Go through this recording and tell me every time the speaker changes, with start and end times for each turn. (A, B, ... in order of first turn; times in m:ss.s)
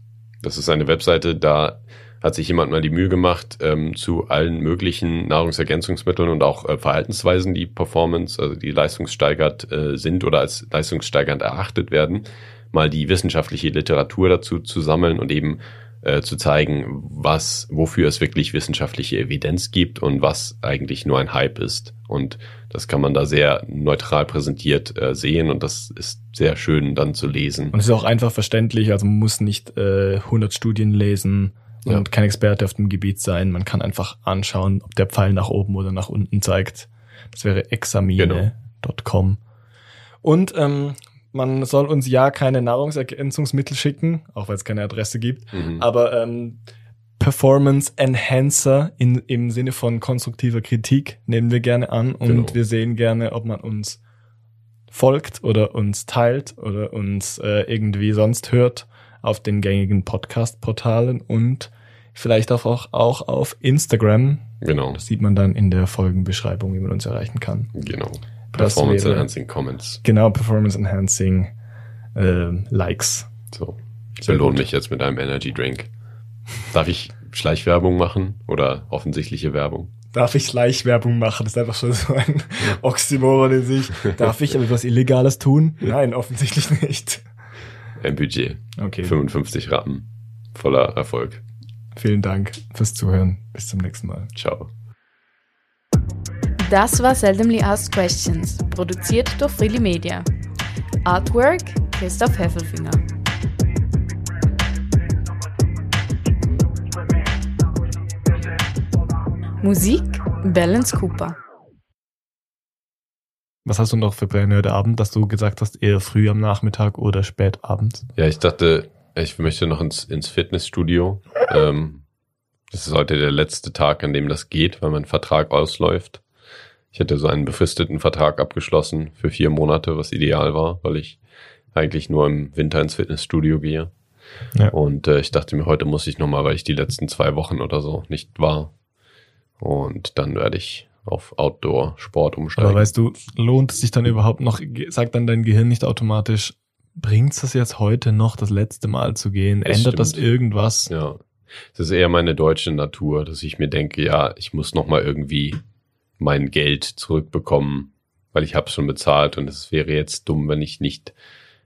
0:00.4-0:27.7 A
0:27.7-0:39.4 B
0:38.2-0:38.5 A
0:40.2-0:46.6 B
0:45.5-0:45.8 A
0:47.2-0:54.0 B
0:52.2-0:52.6 A
0:54.9-1:07.7 B
1:04.6-1:05.0 A
1:07.7-1:10.0 A
1:08.5-1:09.3 B
1:10.0-1:11.5 B
1:12.2-1:13.3 B
1:13.5-1:15.9 A
1:14.2-1:14.6 B
1:16.7-1:19.9 A
1:20.1-1:27.2 B
1:28.0-1:31.4 A
1:28.8-1:29.1 B
1:32.0-1:34.3 B
1:34.4-1:34.7 A
1:36.6-1:40.2 C
1:41.0-1:43.0 C
1:49.6-1:51.4 C
1:53.6-1:58.1 B
1:58.2-2:02.0 A
2:02.7-2:06.2 A
2:06.9-2:11.2 A
2:11.7-2:13.9 A
2:14.7-2:18.7 A
2:19.6-2:22.9 A
2:22.6-2:30.9 B
2:29.6-2:30.2 A
2:30.9-2:31.2 A
2:31.7-2:35.6 A
2:36.2-2:41.1 A